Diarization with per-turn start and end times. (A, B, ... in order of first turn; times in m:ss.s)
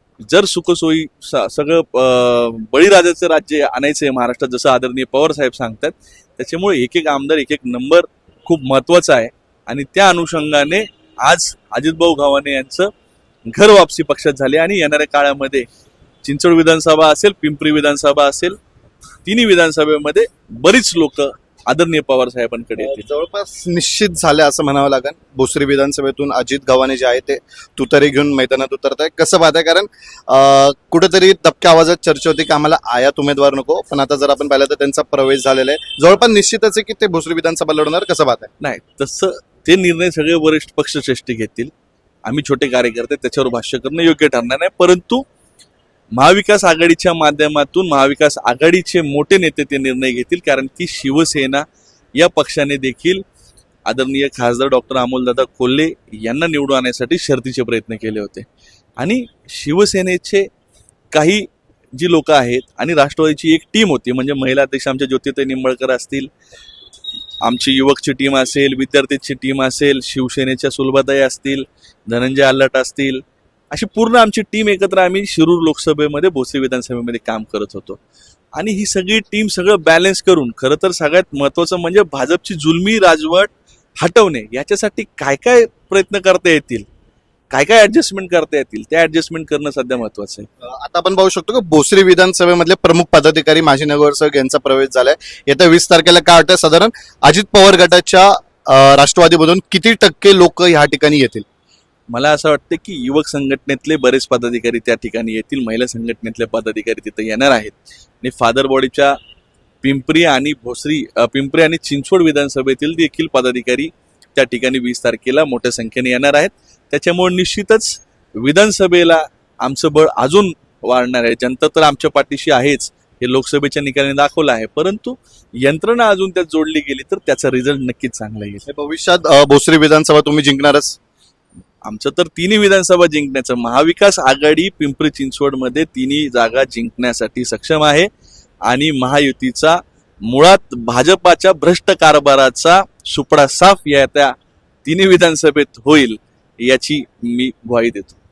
0:00.2-0:12.9 A
0:13.5-0:15.7 A
0:16.2-0:18.6 A
0:19.2-0:23.1 A
0:22.8-0:38.5 B
0:38.6-0:41.7 A
0:42.2-0:45.2 A
0:46.1-0:53.2 A
0:53.9-0:58.5 A
0:59.0-1:00.5 A
1:01.1-1:06.3 A
1:07.4-1:18.0 A
1:18.6-1:26.9 A
1:27.5-1:30.5 A
1:30.6-1:41.4 B
1:42.1-1:49.2 A
1:49.8-2:08.6 A
2:08.7-2:11.0 B
2:11.8-2:18.1 A
2:18.7-2:24.3 A
2:24.8-2:28.2 A